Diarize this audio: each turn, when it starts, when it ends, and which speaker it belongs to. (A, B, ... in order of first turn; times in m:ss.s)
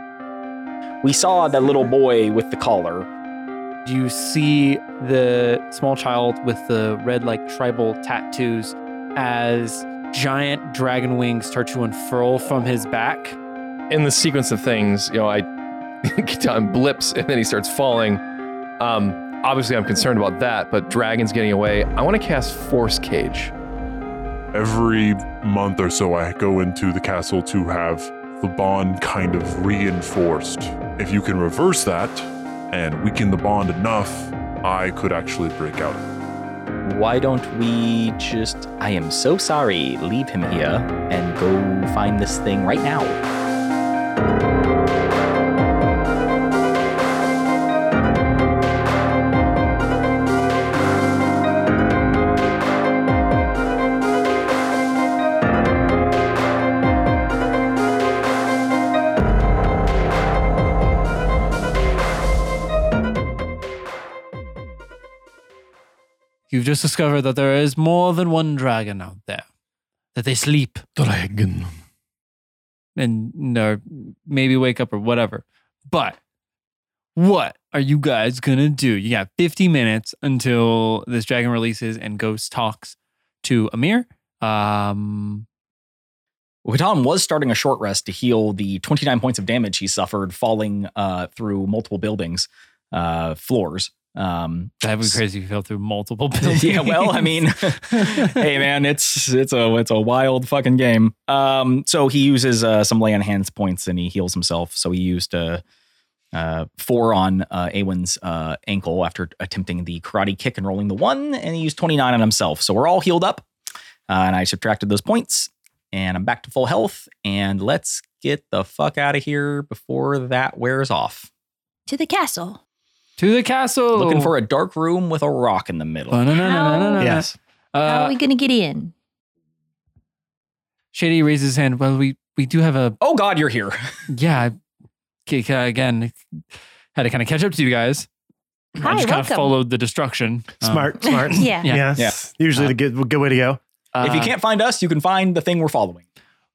0:01.0-0:03.1 A
0:03.8-0:13.4 B
0:13.9-0:15.5 C
0:16.0-0:18.2 C
0:18.8-0:23.5 C
0:24.5-0:36.0 D
0:36.8-0:43.2 A
1:06.5-1:09.4 B
1:10.1-1:10.8 B
1:11.0-1:11.8 C
1:13.0-1:16.2 B
1:17.2-1:25.4 B
1:26.6-1:35.2 A
1:34.8-1:38.4 B
1:36.4-1:45.6 A
1:46.3-1:53.4 A
1:54.1-2:01.3 A
2:01.9-2:02.6 E
2:03.2-2:04.3 B
2:03.9-2:06.2 A
2:06.1-2:08.2 B
2:06.3-2:07.2 E
2:07.0-2:07.3 F
2:07.8-2:08.9 E
2:10.9-2:13.0 B
2:13.0-2:13.8 A
2:14.1-2:14.5 B
2:15.3-2:16.2 B
2:16.9-2:18.1 B
2:18.8-2:19.5 E
2:18.8-2:21.9 B
2:20.6-2:23.6 F
2:21.1-2:21.7 E
2:23.9-2:24.3 B
2:24.0-2:26.0 A